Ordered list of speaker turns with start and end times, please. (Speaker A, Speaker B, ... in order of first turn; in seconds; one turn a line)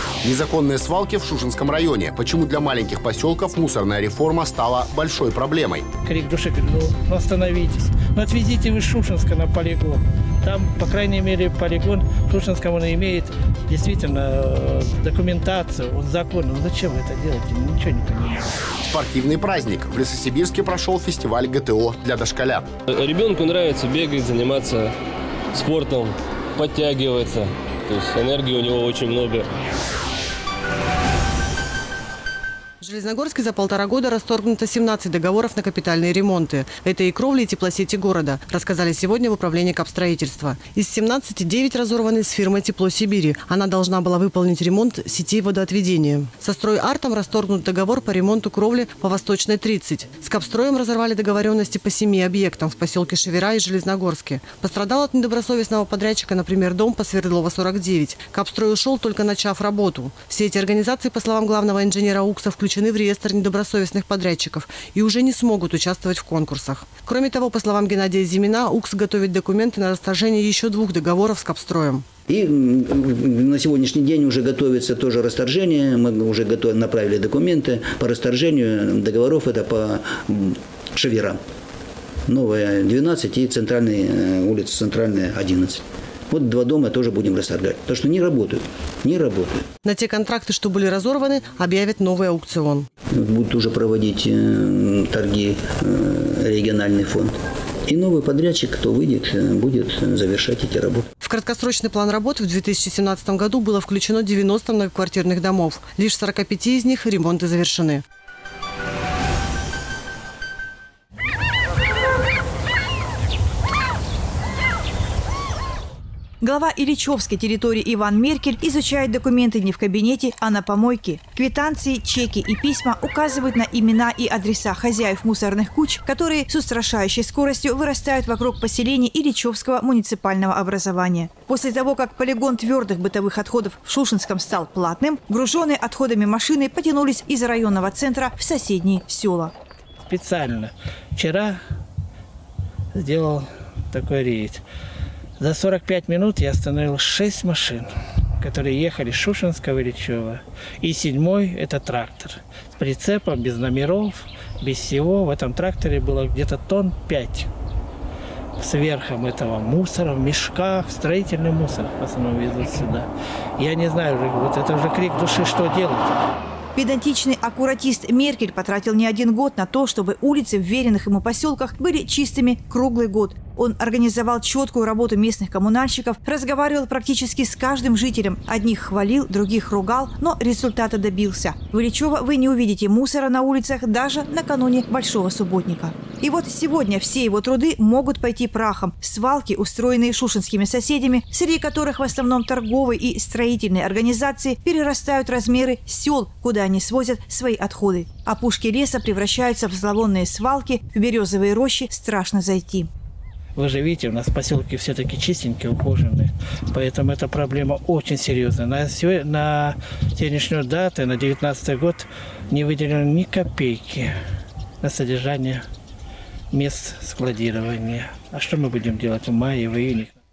Speaker A: 0.2-5.8
Speaker B: 6.0-18.5
Speaker A: 18.8-22.7
Speaker C: 22.9-24.9
Speaker C: 25.5-29.5
Speaker D: 32.8-72.1
Speaker E: 72.3-81.4
Speaker E: 82.3-89.7
Speaker D: 89.8-92.9
Speaker E: 93.1-97.4
Speaker E: 97.9-101.1
Speaker D: 101.2-108.0
Speaker F: 116.4-139.5
Speaker B: 140.0-141.6
Speaker B: 142.9-144.6
Speaker B: 145.4-157.5
Speaker B: 158.6-163.1
Speaker B: 163.6-166.1
Speaker F: 166.8-202.9
Speaker B: 203.6-214.1
Speaker B: 214.8-215.6
Speaker B: 216.5-220.1